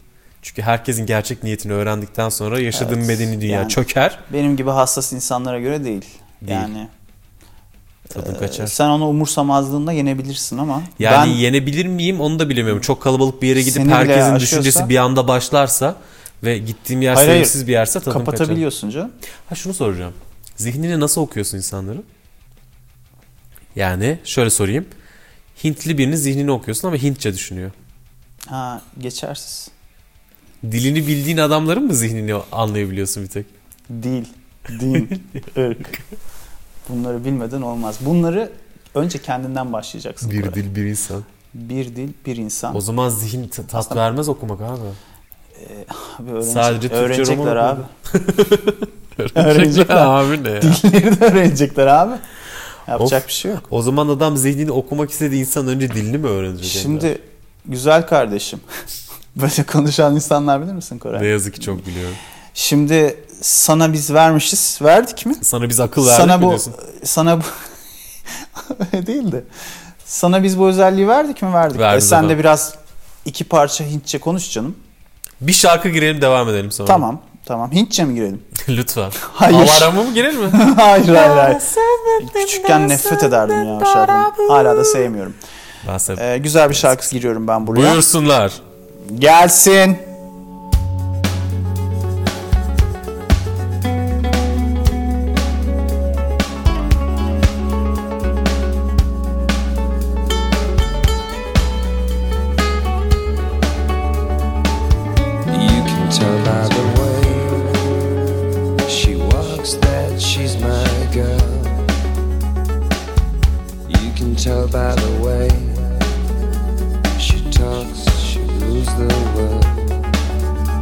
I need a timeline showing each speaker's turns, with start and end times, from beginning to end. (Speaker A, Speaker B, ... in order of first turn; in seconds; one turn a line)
Speaker A: 0.4-4.2
Speaker B: 2.7-6.9
Speaker A: 6.4-6.7
Speaker B: 8.1-11.4
Speaker A: 8.1-8.7
Speaker A: 11.0-18.6
Speaker B: 13.6-14.9
Speaker B: 17.1-17.6
Speaker B: 18.1-19.1
Speaker A: 19.5-22.1
Speaker A: 23.7-24.9
Speaker A: 25.6-27.7
Speaker B: 28.5-29.7
Speaker A: 30.6-33.5
Speaker B: 33.9-36.0
Speaker B: 36.9-40.6
Speaker A: 40.2-41.3
Speaker B: 41.5-42.8
Speaker A: 42.7-45.0
Speaker B: 43.7-44.0
Speaker B: 45.5-47.9
Speaker A: 46.4-50.8
Speaker B: 49.3-52.2
Speaker B: 52.9-53.6
Speaker A: 53.0-57.1
Speaker B: 56.6-58.6
Speaker B: 59.3-61.6
Speaker A: 61.1-62.2
Speaker B: 62.5-65.4
Speaker A: 65.4-66.8
Speaker B: 66.0-67.5
Speaker B: 68.5-69.5
Speaker B: 70.0-74.8
Speaker A: 71.7-72.4
Speaker A: 75.4-77.0
Speaker B: 76.8-78.5
Speaker A: 78.5-80.6
Speaker B: 79.2-80.0
Speaker B: 80.5-81.7
Speaker A: 81.2-85.0
Speaker B: 82.2-85.4
Speaker A: 85.8-87.1
Speaker B: 86.2-88.0
Speaker A: 87.7-88.6
Speaker B: 89.0-90.0
Speaker C: 105.5-107.8
Speaker C: 108.8-111.9
Speaker C: 113.9-115.8
Speaker C: 117.2-119.9